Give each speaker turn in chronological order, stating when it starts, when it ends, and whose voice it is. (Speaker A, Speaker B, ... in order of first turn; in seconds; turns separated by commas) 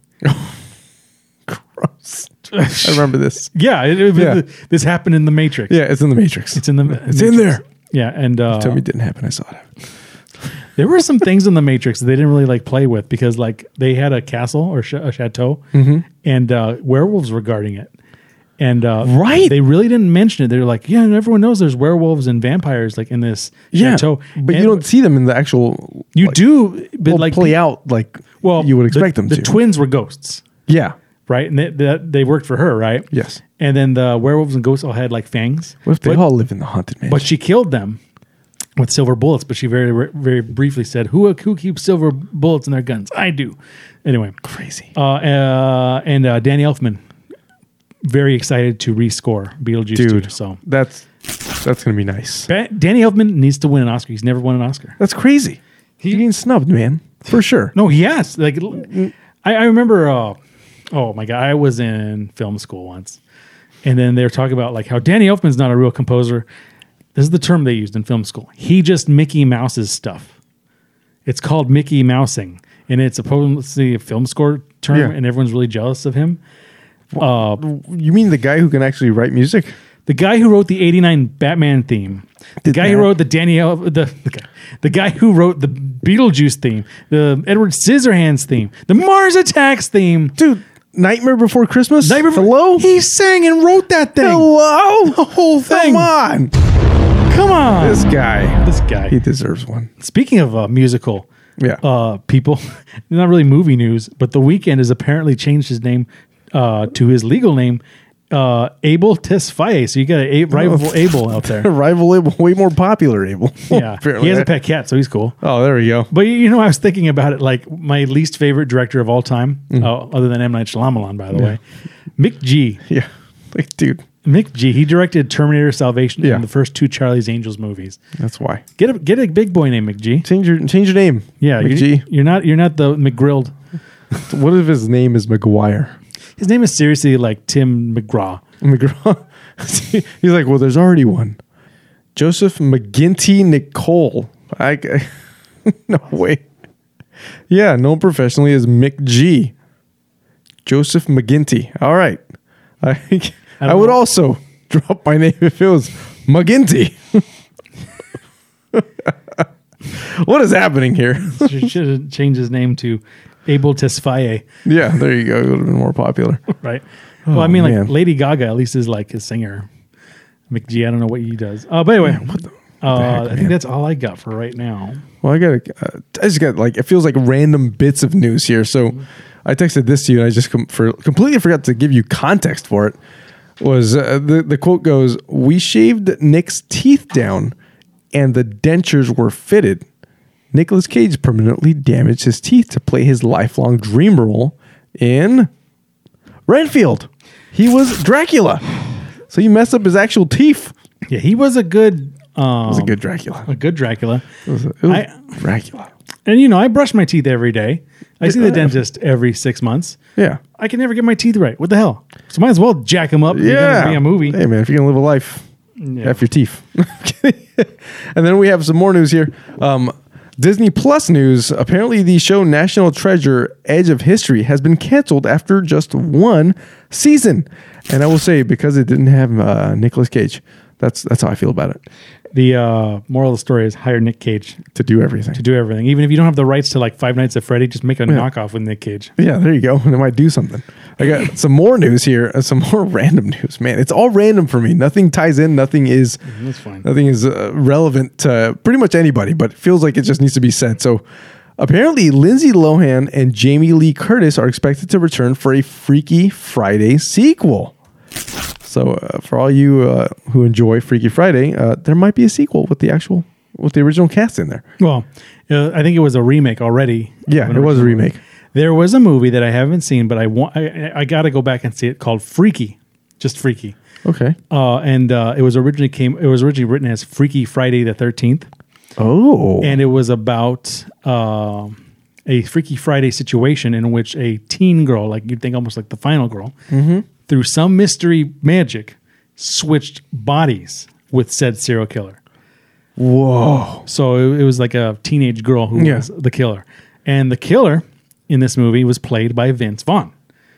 Speaker A: 0.2-0.6, Speaker A: 1.5-3.5, Speaker B: 2.5-5.8, Speaker A: 4.1-4.4, Speaker A: 5.7-7.6, Speaker B: 6.5-8.8, Speaker A: 8.5-9.7, Speaker B: 10.8-17.9, Speaker A: 15.7-16.0, Speaker B: 18.6-24.8, Speaker A: 19.0-19.6, Speaker A: 23.7-26.4, Speaker B: 26.1-27.6, Speaker A: 27.0-29.6, Speaker B: 28.4-30.4, Speaker A: 30.7-30.9, Speaker B: 31.3-36.2, Speaker A: 33.1-33.4, Speaker A: 35.9-37.3, Speaker B: 37.0-38.0, Speaker B: 38.8-44.4, Speaker A: 44.4-44.9, Speaker B: 44.9-47.0, Speaker B: 48.0-50.6, Speaker A: 49.9-51.1, Speaker A: 51.6-52.5, Speaker B: 52.5-55.0, Speaker A: 55.0-57.7, Speaker B: 57.7-60.4, Speaker B: 60.9-63.2, Speaker B: 63.8-66.5, Speaker B: 67.1-70.3, Speaker B: 71.2-76.4, Speaker A: 77.1-79.7, Speaker B: 77.2-77.6, Speaker B: 80.0-90.4, Speaker A: 82.6-83.1, Speaker A: 90.4-92.9, Speaker B: 92.0-94.5, Speaker A: 94.2-96.5, Speaker B: 95.0-96.1, Speaker B: 97.3-99.2, Speaker A: 97.8-99.9, Speaker B: 100.0-101.2, Speaker B: 101.8-111.7, Speaker A: 110.5-114.5, Speaker B: 113.7-115.4, Speaker A: 115.4-116.1, Speaker B: 116.1-121.6, Speaker B: 122.2-122.8, Speaker A: 122.9-124.0, Speaker B: 124.2-128.0, Speaker A: 128.2-128.6, Speaker B: 128.8-130.3, Speaker A: 130.2-132.0, Speaker B: 131.4-133.5, Speaker A: 134.2-135.9, Speaker B: 136.4-138.4, Speaker A: 138.6-141.4, Speaker A: 142.1-145.1, Speaker A: 145.6-146.4, Speaker A: 147.5-149.5, Speaker A: 150.6-152.2, Speaker A: 152.8-157.2, Speaker B: 153.6-154.0, Speaker A: 158.7-161.7, Speaker B: 161.2-164.4, Speaker A: 164.6-166.4, Speaker B: 166.6-169.7, Speaker A: 167.3-167.9, Speaker B: 170.5-175.0, Speaker A: 172.0-173.5, Speaker A: 175.2-183.0, Speaker A: 183.6-187.5, Speaker A: 188.1-189.8, Speaker A: 190.5-195.5, Speaker A: 196.5-198.7, Speaker A: 199.3-200.7, Speaker B: 201.1-204.2, Speaker A: 202.7-203.5, Speaker A: 204.4-205.9, Speaker B: 204.9-205.4, Speaker B: 206.2-210.0, Speaker A: 208.2-208.8, Speaker B: 210.5-214.4, Speaker A: 213.3-215.4, Speaker B: 215.8-216.2, Speaker A: 216.0-231.8, Speaker B: 232.3-234.6, Speaker A: 234.7-235.4, Speaker B: 235.3-239.1, Speaker A: 239.2-246.2, Speaker B: 246.2-246.9, Speaker A: 246.8-251.0, Speaker A: 251.6-257.7, Speaker A: 258.6-264.6, Speaker B: 264.8-273.8, Speaker A: 267.3-268.2, Speaker A: 274.0-274.4, Speaker B: 274.5-278.5, Speaker A: 279.0-279.8, Speaker B: 279.6-286.5, Speaker A: 286.7-287.1, Speaker B: 287.2-292.2, Speaker A: 293.0-293.9, Speaker B: 293.9-300.1, Speaker A: 295.7-296.1